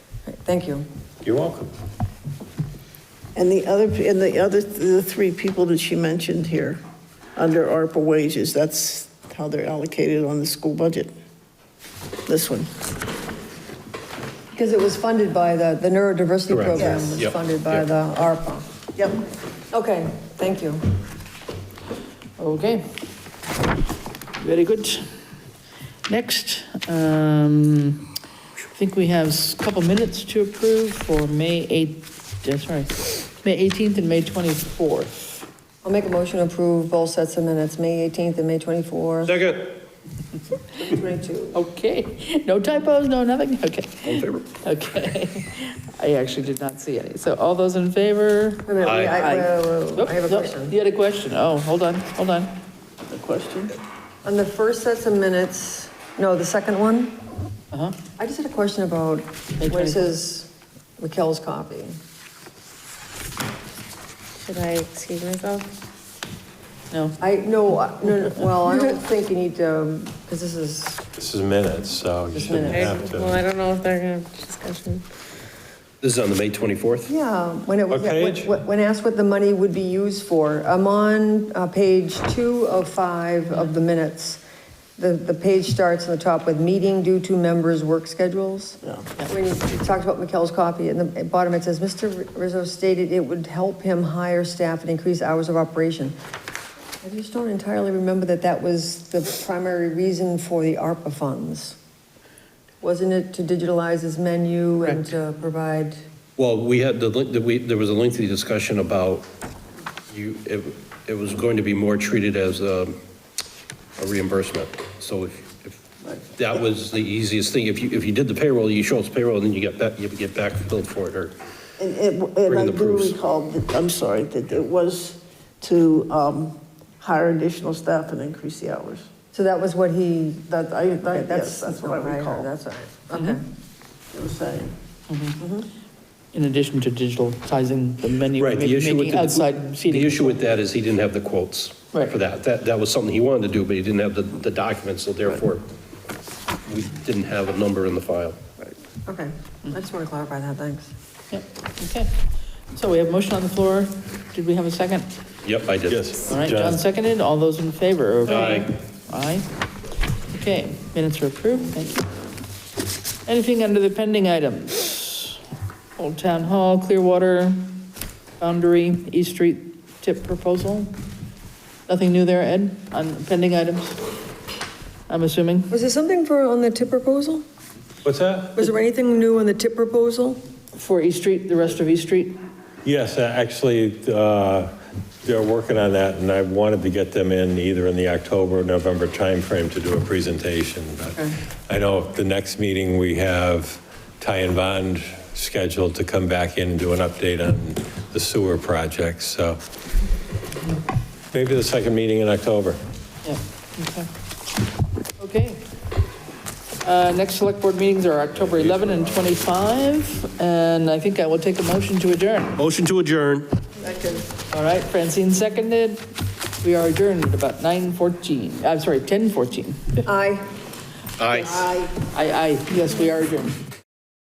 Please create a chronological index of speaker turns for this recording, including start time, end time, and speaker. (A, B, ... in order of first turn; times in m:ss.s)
0:00.3-0:00.8 A
0:01.2-0:01.7 B
0:03.3-0:06.8 C
0:07.4-0:11.1 C
0:12.3-0:12.7 C
0:14.5-0:18.6 A
0:16.5-0:17.8 D
0:16.7-0:17.2 C
0:19.7-0:20.8 A
0:22.4-0:22.9 E
0:24.4-0:25.2 E
0:26.1-0:28.1 E
0:28.7-0:35.4 E
0:35.8-0:39.3 A
0:39.2-0:39.8 D
0:40.8-0:41.6 A
0:41.5-0:52.6 E
0:44.0-0:44.5 D
0:48.6-0:50.7 A
0:48.8-0:49.2 D
0:53.1-0:53.8 C
0:54.2-0:57.2 A
0:57.7-0:58.0 E
0:58.2-1:02.0 A
0:59.6-1:00.0 E
1:04.4-1:05.7 F
1:06.9-1:07.2 E
1:07.2-1:11.0 A
1:11.2-1:13.3 B
1:12.3-1:12.9 A
1:12.8-1:15.0 F
1:16.0-1:17.1 D
1:17.1-1:24.4 A
1:17.9-1:18.5 B
1:25.0-1:36.1 A
1:28.8-1:29.1 C
1:37.0-1:41.8 A
1:42.8-1:46.0 A
1:46.4-1:49.2 D
1:50.1-1:53.0 D
1:54.0-1:55.8 D
1:56.0-1:56.6 C
1:56.4-2:01.3 D
2:01.8-2:09.1 C
2:02.5-2:03.2 D
2:09.3-2:13.4 A
2:10.5-2:12.5 C
2:14.1-2:14.7 C
2:15.1-2:15.4 E
2:15.4-2:15.6 A
2:16.3-2:20.5 E
2:18.4-2:25.6 D
2:26.7-2:28.4 D
2:29.0-2:30.9 A
2:31.3-2:32.1 E
2:32.7-2:35.1 E
2:35.4-2:36.1 D
2:35.9-2:36.8 B
2:36.3-2:39.5 E
2:38.2-2:38.7 D
2:40.3-2:42.0 E
2:43.2-2:45.4 E
2:46.0-2:47.8 E
2:48.4-2:51.0 E
2:51.9-2:54.0 E
2:55.1-2:55.7 E
2:55.7-2:57.4 A
2:58.0-2:58.6 B
2:58.6-3:00.4 A
3:00.8-3:02.4 E
3:02.8-3:19.6 B
3:21.3-3:22.8 B
3:23.2-3:24.1 E
3:25.2-3:25.6 E
3:26.8-3:32.6 E
3:32.6-3:33.5 D
3:34.1-3:36.0 E
3:36.6-3:40.0 E
3:40.0-3:40.5 A
3:41.2-3:41.7 D
3:41.3-3:42.0 C
3:42.1-3:43.6 E